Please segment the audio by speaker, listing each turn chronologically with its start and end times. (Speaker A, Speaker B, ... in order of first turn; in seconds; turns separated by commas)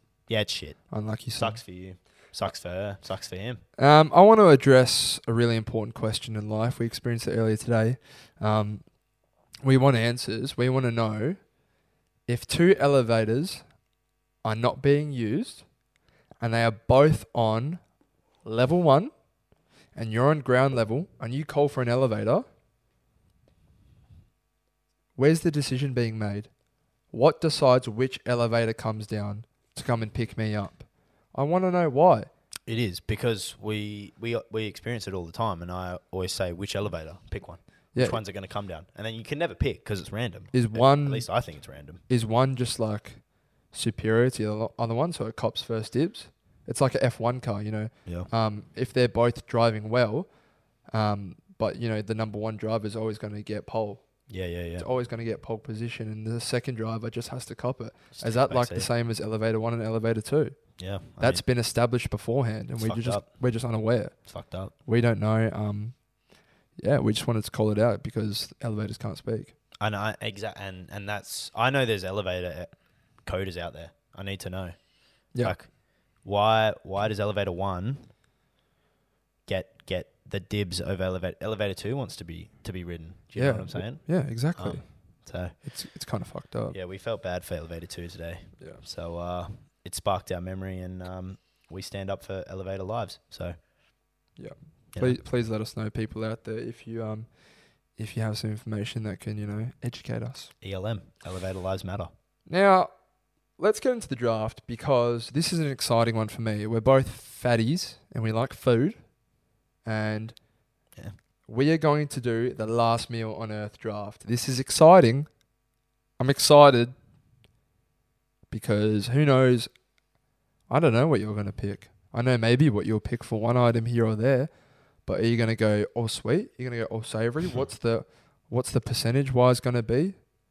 Speaker A: 0.3-0.8, Speaker B: 0.9-1.6, Speaker A: 1.4-3.6, Speaker B: 3.8-8.8, Speaker B: 9.6-11.4, Speaker B: 12.3-13.6, Speaker B: 14.4-15.7, Speaker B: 16.4-17.8, Speaker B: 18.4-19.1, Speaker B: 19.9-22.4, Speaker B: 25.1-26.5, Speaker B: 27.1-32.3, Speaker A: 32.6-42.0, Speaker B: 37.9-38.2, Speaker B: 40.5-41.3, Speaker B: 42.1-43.2, Speaker B: 43.7-50.3, Speaker B: 50.9-54.0, Speaker A: 54.3-54.9, Speaker B: 54.8-60.6, Speaker A: 58.1-58.9, Speaker A: 60.8-61.4, Speaker B: 61.2-64.2, Speaker A: 62.8-63.2, Speaker A: 64.3-64.7, Speaker B: 64.8-66.0, Speaker B: 66.8-69.5, Speaker A: 69.8-74.7, Speaker A: 75.4-75.7, Speaker A: 76.2-78.1, Speaker A: 79.5-85.5, Speaker B: 83.3-84.8, Speaker B: 85.6-86.8, Speaker A: 86.7-93.5, Speaker B: 94.4-97.3, Speaker A: 94.9-95.2, Speaker B: 98.0-100.5, Speaker A: 100.6-102.1, Speaker B: 102.5-102.9, Speaker B: 103.6-109.0, Speaker B: 109.8-110.4, Speaker B: 111.5-115.3, Speaker B: 116.2-116.9, Speaker B: 118.5-119.7, Speaker B: 120.7-124.5, Speaker B: 125.0-130.2